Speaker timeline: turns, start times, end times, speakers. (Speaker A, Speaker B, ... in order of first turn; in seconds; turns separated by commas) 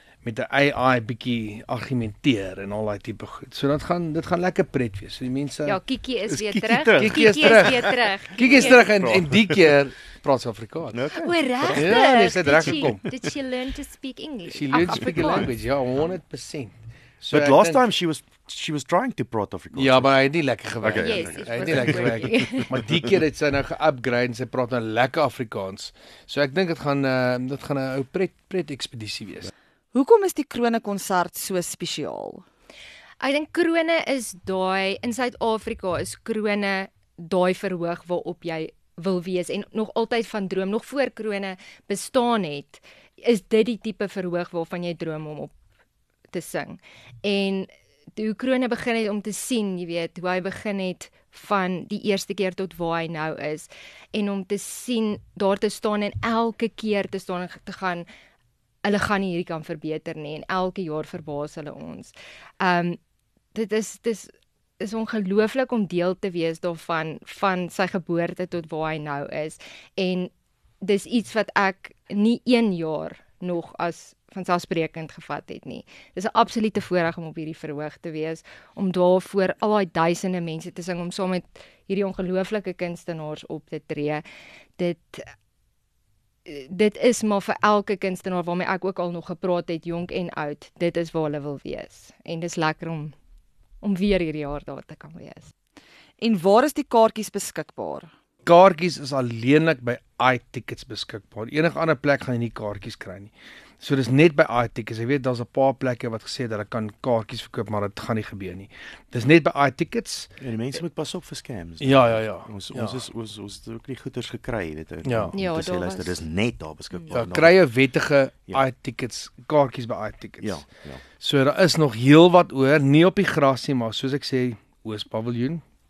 Speaker A: 0.2-5.8, Speaker B: 5.6-9.0, Speaker C: 6.3-7.9, Speaker A: 6.9-11.1, Speaker C: 8.4-9.6, Speaker C: 10.9-12.9, Speaker B: 11.1-15.5, Speaker A: 11.7-13.1, Speaker A: 14.5-17.8, Speaker C: 14.8-15.3, Speaker C: 17.3-20.1, Speaker A: 19.7-29.5, Speaker C: 20.8-22.9, Speaker B: 20.9-22.8, Speaker D: 29.9-32.4, Speaker B: 33.2-45.5, Speaker B: 46.3-58.1, Speaker B: 58.8-63.0, Speaker B: 63.5-70.3, Speaker B: 70.8-84.2, Speaker B: 84.8-85.3, Speaker B: 86.5-93.2, Speaker B: 93.8-95.5, Speaker D: 96.2-98.1, Speaker A: 98.5-110.3, Speaker C: 110.4-117.6, Speaker A: 111.8-113.0, Speaker A: 115.0-115.3, Speaker B: 115.3-116.2, Speaker A: 117.1-120.6, Speaker C: 120.4-121.0, Speaker A: 121.2-125.6